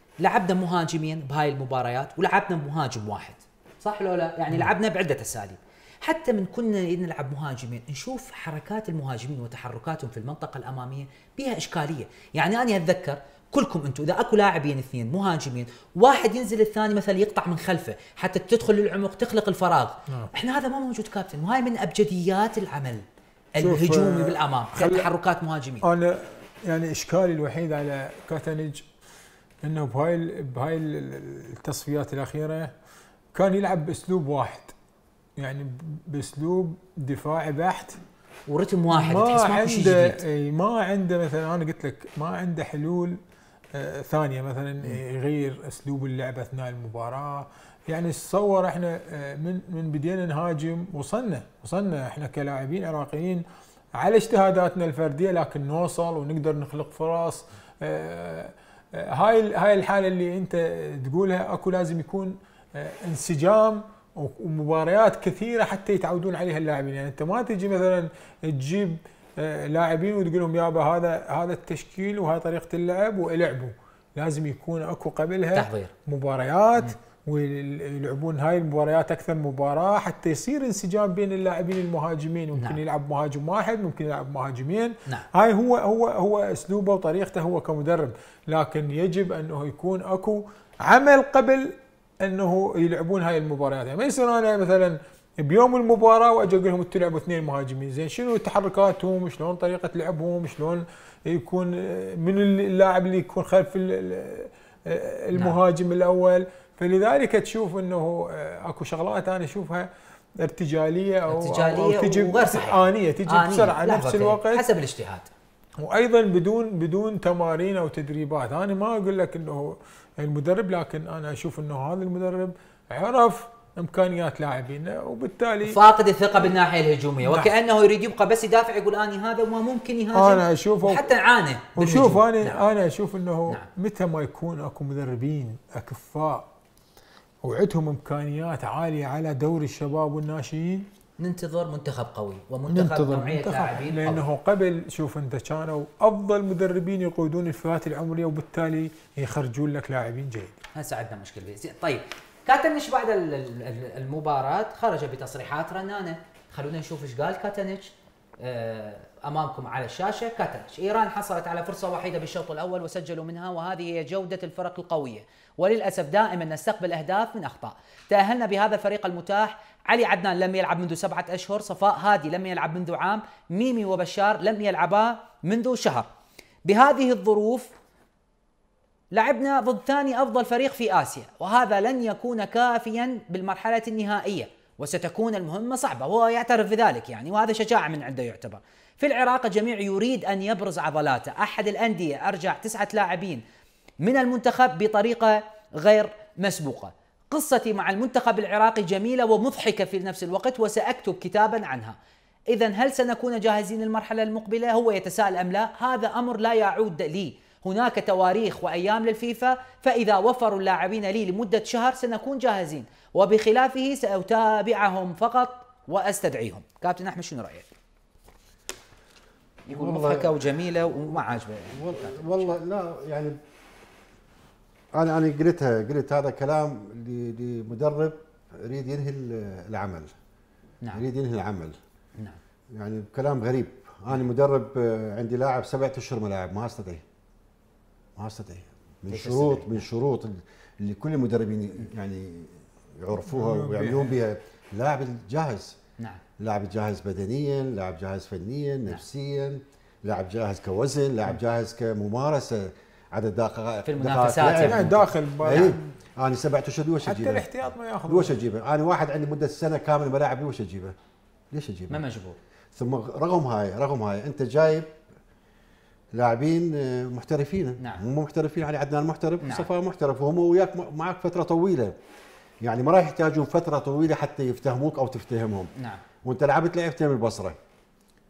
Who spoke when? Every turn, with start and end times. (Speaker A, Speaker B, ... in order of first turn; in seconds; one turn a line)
Speaker A: 0.2-25.9
Speaker B: 23.6-25.1
Speaker B: 25.8-28.9
Speaker B: 29.6-32.7
Speaker B: 33.3-34.7
Speaker B: 35.4-38.0
Speaker A: 38.5-40.2
Speaker B: 38.9-43.2
Speaker B: 43.7-53.4
Speaker B: 54.0-109.9
Speaker A: 75.5-75.9
Speaker A: 105.3-105.6
Speaker B: 110.4-114.6
Speaker A: 111.3-115.3
Speaker B: 115.8-125.8
Speaker A: 125.6-132.6
Speaker B: 127.2-127.5
Speaker B: 130.1-131.0
Speaker B: 131.8-136.5
Speaker B: 137.4-140.9
Speaker A: 141.2-144.2
Speaker B: 142.7-150.6
Speaker A: 150.7-176.1
Speaker A: 176.7-177.7
Speaker A: 179.1-193.4
Speaker A: 194.0-202.0
Speaker A: 202.5-217.7
Speaker C: 219.7-220.3
Speaker A: 219.7-222.6
Speaker C: 221.7-223.4
Speaker C: 224.9-230.1
Speaker C: 230.9-231.8
Speaker C: 232.7-237.0
Speaker C: 238.2-245.8
Speaker A: 239.1-239.8
Speaker B: 243.3-244.2
Speaker C: 246.4-257.5
Speaker A: 253.8-254.9
Speaker B: 254.6-255.8
Speaker A: 255.5-255.8
Speaker B: 257.0-258.4
Speaker C: 258.1-260.9
Speaker C: 261.5-262.0
Speaker A: 261.9-262.4
Speaker C: 262.7-264.9
Speaker C: 266.1-271.9
Speaker A: 269.4-269.7
Speaker C: 272.6-275.7
Speaker A: 275.8-276.0
Speaker C: 276.2-277.6